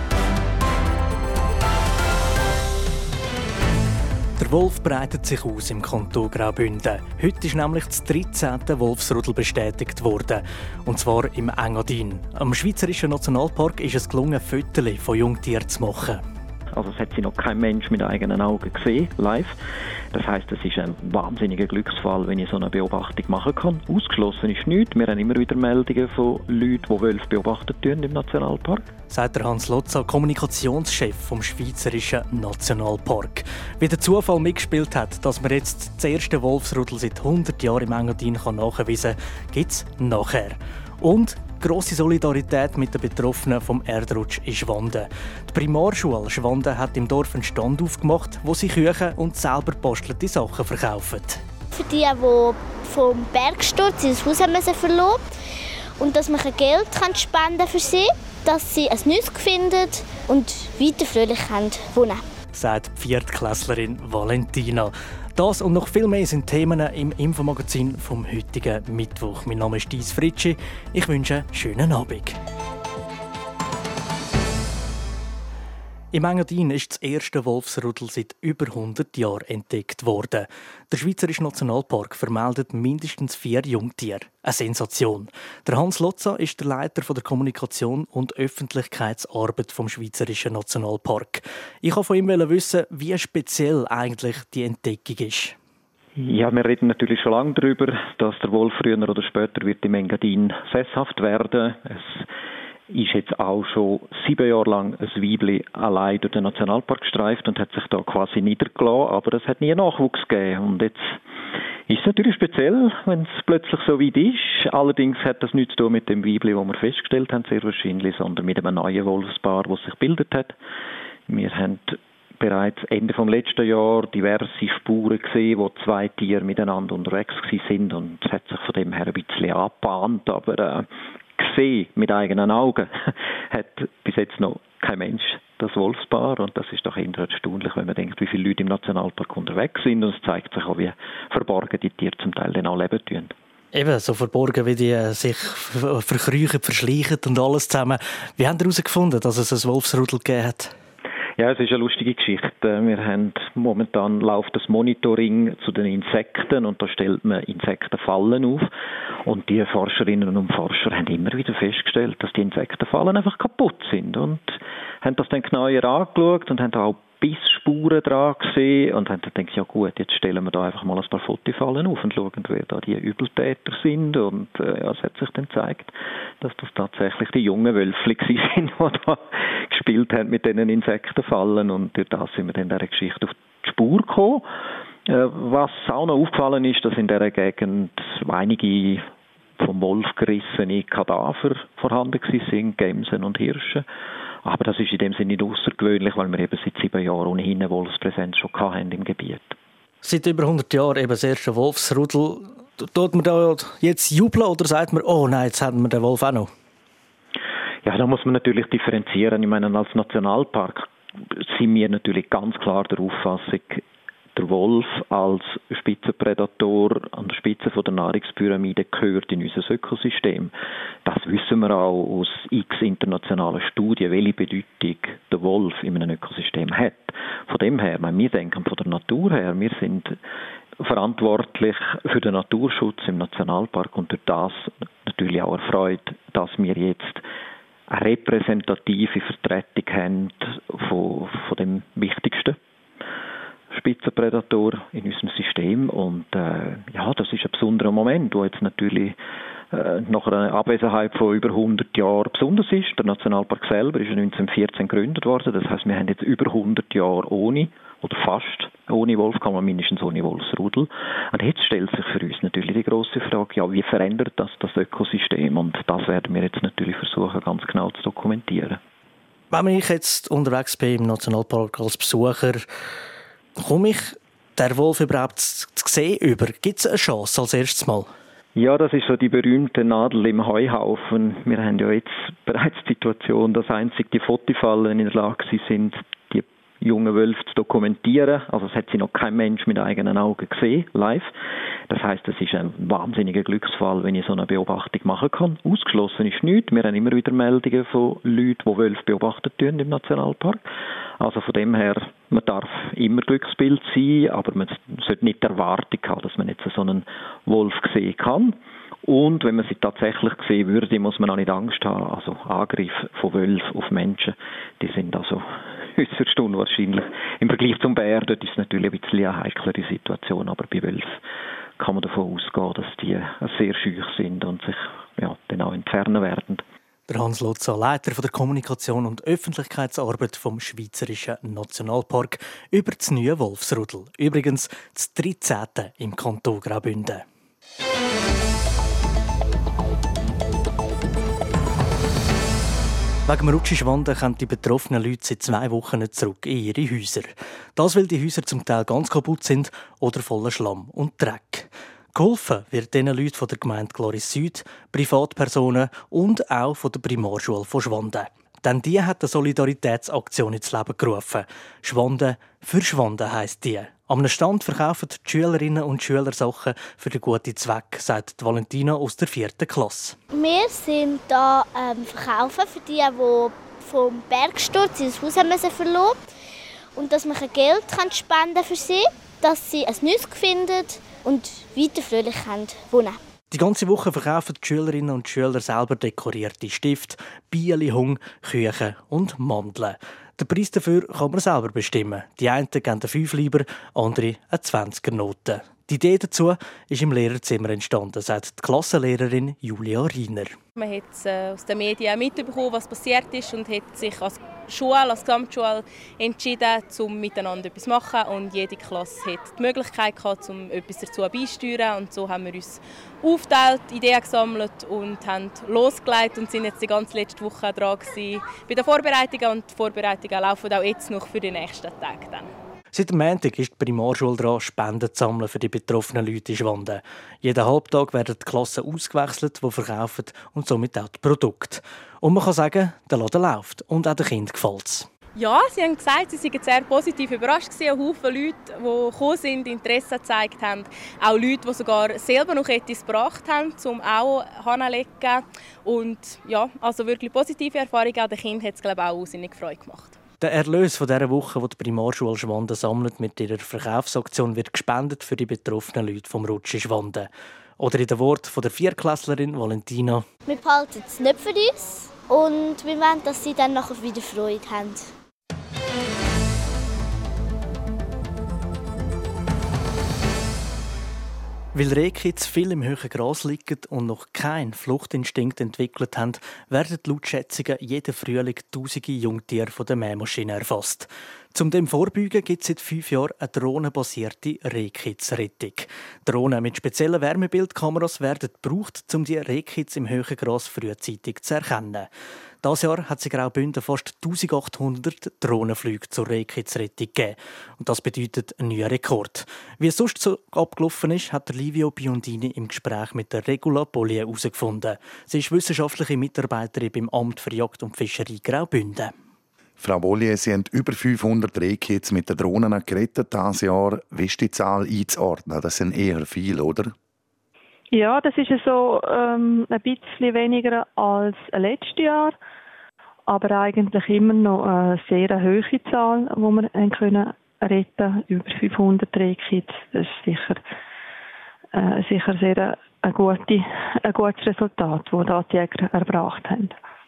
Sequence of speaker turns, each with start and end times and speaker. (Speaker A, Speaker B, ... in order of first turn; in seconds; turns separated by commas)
Speaker A: 4.4-16.2, Speaker B: 16.7-19.5, Speaker B: 20.1-28.9, Speaker A: 29.1-51.4, Speaker C: 51.7-55.2, Speaker C: 56.0-62.2, Speaker A: 62.5-72.4, Speaker A: 76.1-95.5, Speaker B: 96.2-102.2, Speaker B: 102.9-111.2, Speaker B: 111.9-120.5, Speaker B: 121.3-130.8, Speaker B: 131.4-143.3, Speaker A: 143.7-150.7, Speaker B: 151.4-158.7, Speaker B: 159.2-184.4, Speaker B: 185.1-189.0, Speaker B: 189.6-193.8, Speaker B: 194.4-199.6, Speaker A: 200.0-206.5, Speaker B: 207.8-213.8, Speaker B: 214.3-220.5, Speaker B: 221.0-230.2, Speaker B: 230.8-237.2, Speaker B: 237.9-242.6, Speaker B: 243.7-249.2, Speaker B: 249.7-268.8, Speaker A: 269.5-272.7, Speaker A: 273.6-278.1, Speaker B: 278.6-291.3, Speaker B: 291.9-300.6, Speaker B: 301.2-321.2, Speaker B: 321.8-326.6, Speaker A: 327.1-337.2, Speaker A: 343.3-370.2, Speaker C: 370.3-376.2, Speaker C: 376.9-383.2, Speaker A: 383.5-400.6, Speaker D: 400.8-422.5, Speaker A: 422.9-435.1, Speaker D: 435.4-450.1, Speaker A: 450.4-460.2, Speaker C: 460.4-465.1, Speaker A: 471.7-492.1, Speaker A: 492.6-509.1, Speaker E: 509.8-516.9, Speaker F: 517.9-522.4, Speaker F: 523.3-530.6, Speaker F: 531.7-536.7